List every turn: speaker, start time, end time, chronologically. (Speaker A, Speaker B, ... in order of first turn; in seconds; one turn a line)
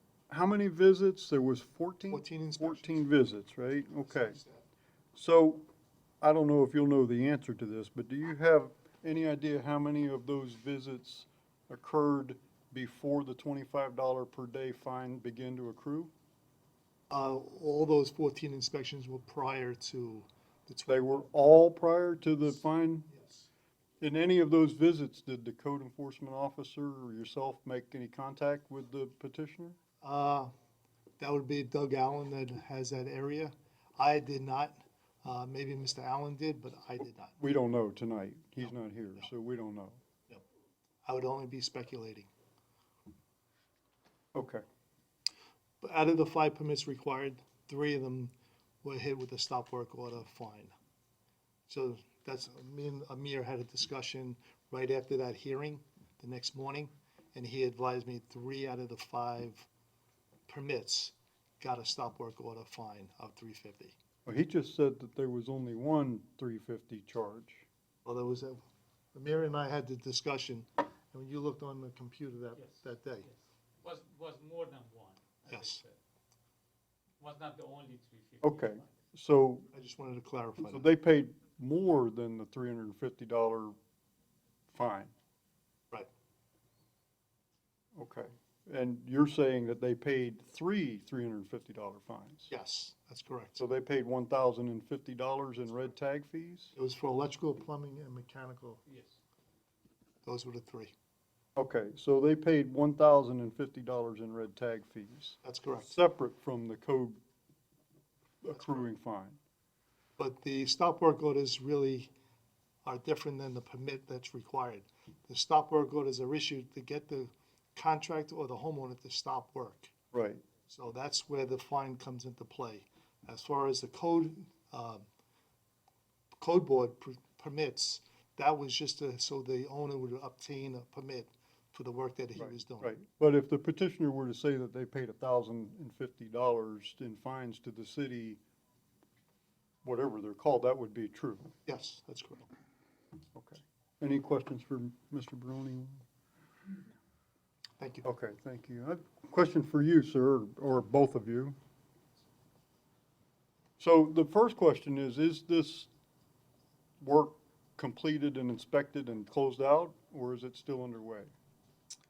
Speaker A: 0.3-4.4
Speaker B: 2.1-3.1
Speaker B: 4.0-4.7
Speaker A: 5.2-5.7
Speaker A: 6.2-16.1
Speaker B: 17.1-21.3
Speaker A: 20.9-23.1
Speaker B: 23.1-23.5
Speaker A: 24.0-29.8
Speaker B: 30.0-30.5
Speaker B: 31.2-37.4
Speaker A: 37.4-40.0
Speaker B: 41.0-42.3
Speaker A: 44.3-44.6
Speaker B: 45.8-50.7
Speaker B: 51.7-59.7
Speaker B: 60.5-64.0
Speaker A: 64.3-67.7
Speaker B: 68.0-68.6
Speaker B: 69.1-73.3
Speaker C: 72.6-76.0
Speaker B: 75.5-75.8
Speaker C: 77.2-78.9
Speaker A: 78.4-79.7
Speaker B: 79.7-80.9
Speaker A: 80.7-83.8
Speaker A: 84.7-85.1
Speaker A: 88.0-92.5
Speaker B: 92.5-93.6
Speaker A: 93.6-96.7
Speaker B: 96.8-98.8
Speaker C: 98.9-99.1
Speaker B: 100.2-100.9
Speaker A: 101.6-107.2
Speaker B: 105.4-105.9
Speaker A: 108.4-109.4
Speaker B: 108.5-108.9
Speaker B: 110.2-112.1
Speaker B: 112.8-120.0
Speaker A: 120.1-120.4
Speaker B: 120.7-125.0
Speaker B: 126.4-132.9
Speaker A: 132.4-138.4
Speaker A: 139.8-141.5
Speaker B: 141.7-142.5
Speaker A: 143.3-146.1
Speaker B: 147.8-148.1
Speaker A: 148.0-151.6
Speaker A: 153.8-155.9
Speaker A: 157.0-161.3